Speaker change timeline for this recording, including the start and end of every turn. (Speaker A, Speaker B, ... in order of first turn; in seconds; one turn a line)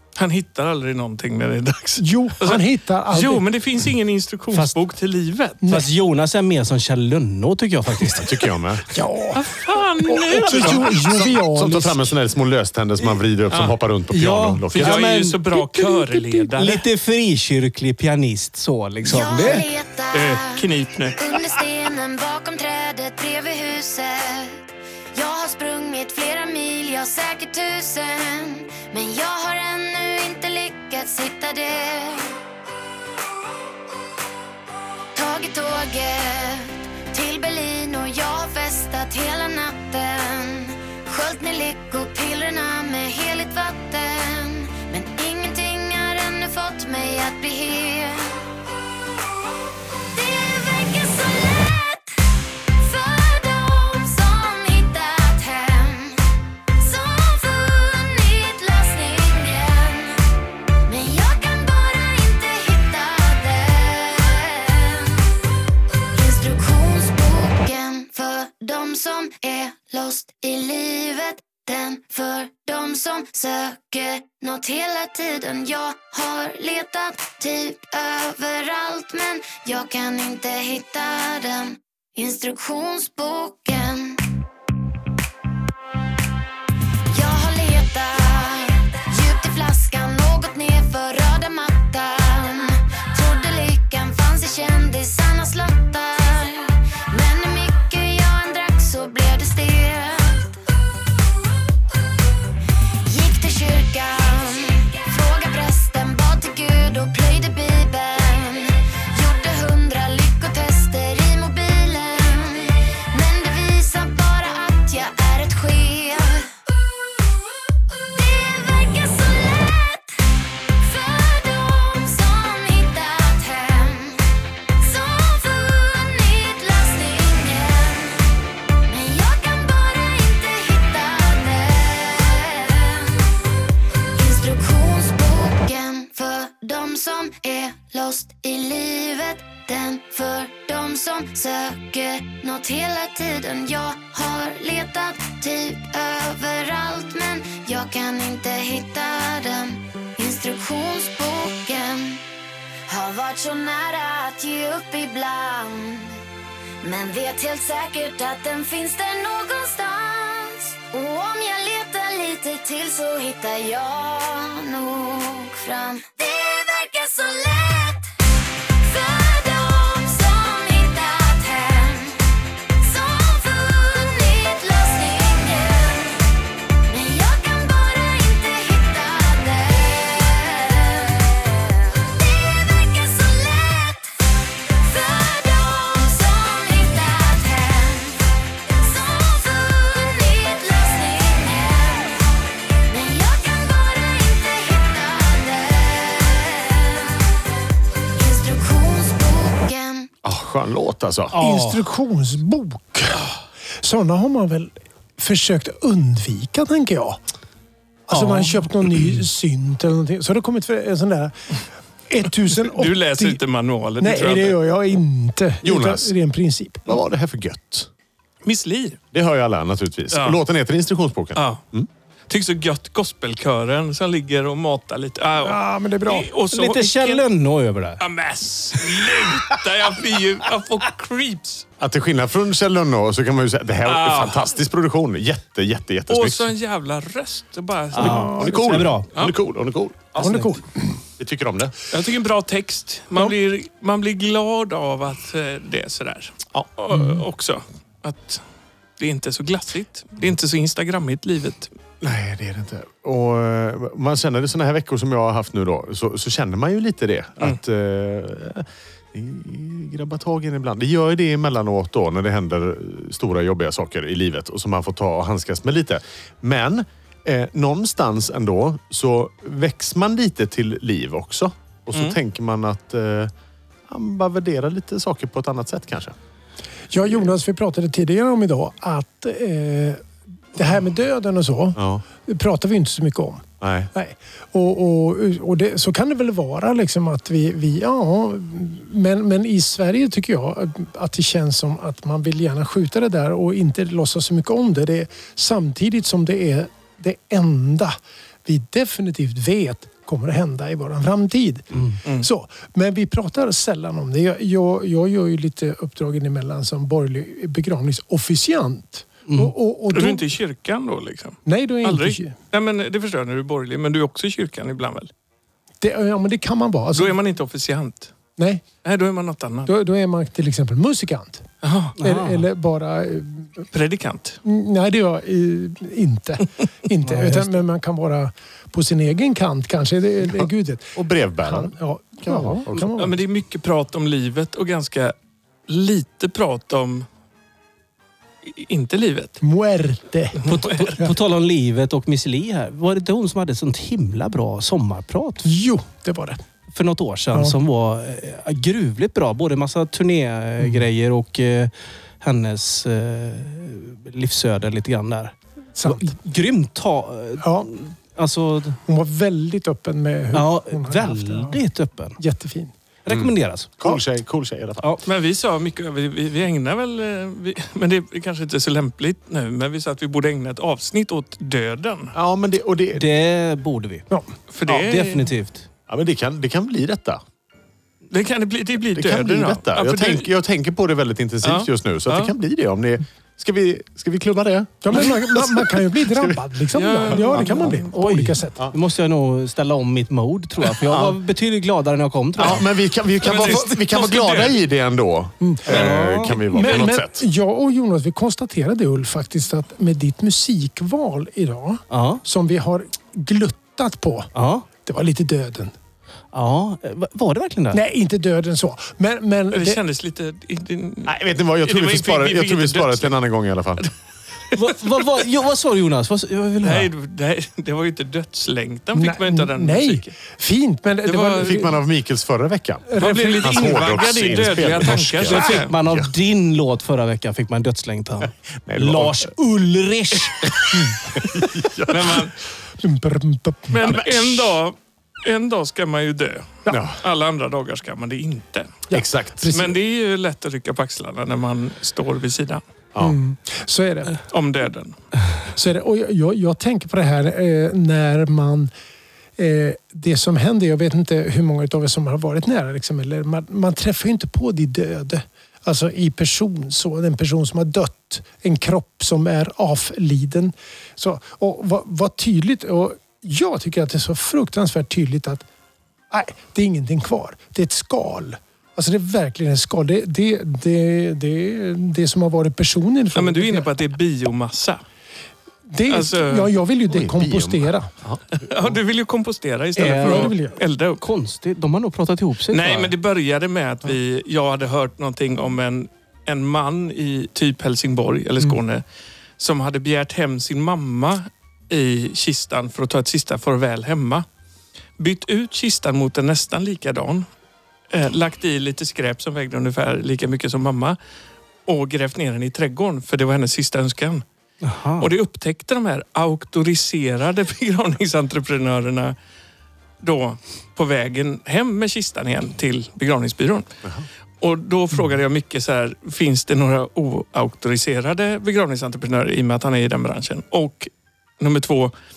Speaker A: 0.2-5.6
Speaker B: 2.0-3.5
Speaker C: 4.5-4.8
Speaker C: 5.7-8.5
Speaker D: 8.2-8.8
Speaker B: 8.9-12.1
Speaker A: 9.3-11.0
Speaker C: 10.3-10.9
Speaker D: 10.9-15.1
Speaker C: 14.1-19.7
Speaker A: 14.7-16.8
Speaker E: 19.1-24.6
Speaker A: 20.1-21.3
Speaker E: 25.1-32.4
Speaker E: 35.1-48.4
Speaker E: 50.1-52.1
Speaker E: 52.8-56.2
Speaker E: 56.8-60.2
Speaker E: 60.9-65.2
Speaker E: 66.1-84.2
Speaker E: 87.1-100.6
Speaker E: 103.0-116.5
Speaker E: 118.0-120.1
Speaker E: 120.8-124.2
Speaker E: 124.8-128.2
Speaker E: 128.8-133.2
Speaker E: 134.2-152.2
Speaker E: 152.9-156.2
Speaker E: 156.8-168.1
Speaker E: 168.8-172.2
Speaker E: 172.8-176.2
Speaker E: 176.9-184.1
Speaker E: 184.7-188.2
Speaker E: 188.7-192.3
Speaker E: 192.9-197.2
Speaker E: 198.2-200.1
Speaker D: 200.2-201.4
Speaker C: 201.3-201.9
Speaker B: 201.4-203.3
Speaker B: 203.8-207.2
Speaker C: 208.1-209.1
Speaker B: 208.1-211.3
Speaker B: 212.1-213.4
Speaker A: 212.6-214.6
Speaker B: 214.0-217.0
Speaker D: 215.6-216.1
Speaker D: 216.9-217.9
Speaker A: 218.4-219.0
Speaker D: 219.1-221.9
Speaker A: 220.1-220.4
Speaker A: 221.4-221.6
Speaker A: 222.3-227.2
Speaker B: 225.4-226.3
Speaker C: 226.5-228.0
Speaker A: 228.0-231.7
Speaker D: 231.8-236.5
Speaker A: 233.8-234.5
Speaker A: 236.1-238.5
Speaker C: 237.9-239.1
Speaker B: 238.0-238.6
Speaker D: 238.0-240.4
Speaker C: 240.2-240.6
Speaker B: 240.2-240.7
Speaker D: 241.2-241.7
Speaker A: 241.9-248.4
Speaker A: 249.0-251.7
Speaker D: 252.0-273.3
Speaker D: 273.9-276.1
Speaker B: 276.9-280.0
Speaker B: 280.6-310.3
Speaker D: 281.8-282.0
Speaker D: 283.6-283.9
Speaker A: 309.9-315.1
Speaker B: 311.5-312.3
Speaker B: 315.8-317.2
Speaker A: 316.9-318.1
Speaker B: 318.4-318.6
Speaker A: 318.8-319.7
Speaker B: 319.7-321.4
Speaker A: 321.6-322.0
Speaker C: 322.0-322.5
Speaker B: 322.0-323.6
Speaker A: 323.7-324.4
Speaker B: 324.4-333.2
Speaker C: 327.0-327.6
Speaker D: 330.2-332.9
Speaker A: 332.8-335.1
Speaker A: 335.7-337.1
Speaker A: 338.4-339.4
Speaker B: 339.4-341.1
Speaker A: 340.4-341.0
Speaker C: 340.5-345.5
Speaker B: 345.4-346.4
Speaker C: 346.7-358.8
Speaker B: 355.8-356.1
Speaker B: 357.4-357.7
Speaker B: 358.9-361.6
Speaker C: 360.3-362.2
Speaker B: 362.2-362.7
Speaker C: 363.1-363.8
Speaker D: 363.1-364.9
Speaker A: 365.1-372.1
Speaker D: 372.1-373.1
Speaker C: 372.9-374.1
Speaker A: 374.5-375.3
Speaker C: 374.6-375.7
Speaker D: 375.9-377.2
Speaker A: 378.1-380.3
Speaker D: 378.9-386.4
Speaker A: 381.4-382.3
Speaker B: 384.8-388.6
Speaker A: 386.7-387.9
Speaker C: 387.9-392.6
Speaker D: 390.8-391.2
Speaker D: 392.4-397.2
Speaker A: 393.2-394.6
Speaker B: 395.4-404.3
Speaker C: 395.7-396.5
Speaker C: 401.9-402.2
Speaker C: 404.3-404.7
Speaker B: 404.8-405.7
Speaker C: 406.3-407.8
Speaker B: 407.7-409.8
Speaker A: 409.5-413.1
Speaker D: 411.1-413.9
Speaker C: 414.5-416.9
Speaker A: 416.6-420.1
Speaker B: 418.9-421.8
Speaker A: 421.1-421.7
Speaker D: 421.4-426.1
Speaker B: 422.9-423.8
Speaker A: 423.0-425.7
Speaker C: 425.3-430.5
Speaker D: 428.2-429.3
Speaker D: 431.1-432.2
Speaker A: 431.9-432.3
Speaker B: 432.8-433.9
Speaker A: 433.7-438.9
Speaker D: 433.8-434.5
Speaker D: 436.7-437.0
Speaker B: 438.9-439.7
Speaker D: 438.9-439.5
Speaker A: 439.5-442.6
Speaker B: 443.0-444.2
Speaker A: 444.2-445.0
Speaker B: 445.5-448.7
Speaker B: 449.4-465.4
Speaker B: 466.1-473.7
Speaker A: 473.1-474.8
Speaker B: 475.7-477.9
Speaker A: 475.9-476.5
Speaker D: 476.9-478.8
Speaker A: 478.3-481.0
Speaker C: 479.8-480.4
Speaker B: 479.8-480.6
Speaker C: 481.0-482.9
Speaker A: 482.5-488.8
Speaker A: 489.4-494.2
Speaker A: 495.0-497.3
Speaker A: 497.9-501.0
Speaker A: 501.7-504.2
Speaker C: 504.6-505.1
Speaker A: 505.0-509.2
Speaker A: 510.0-513.7
Speaker A: 514.4-521.9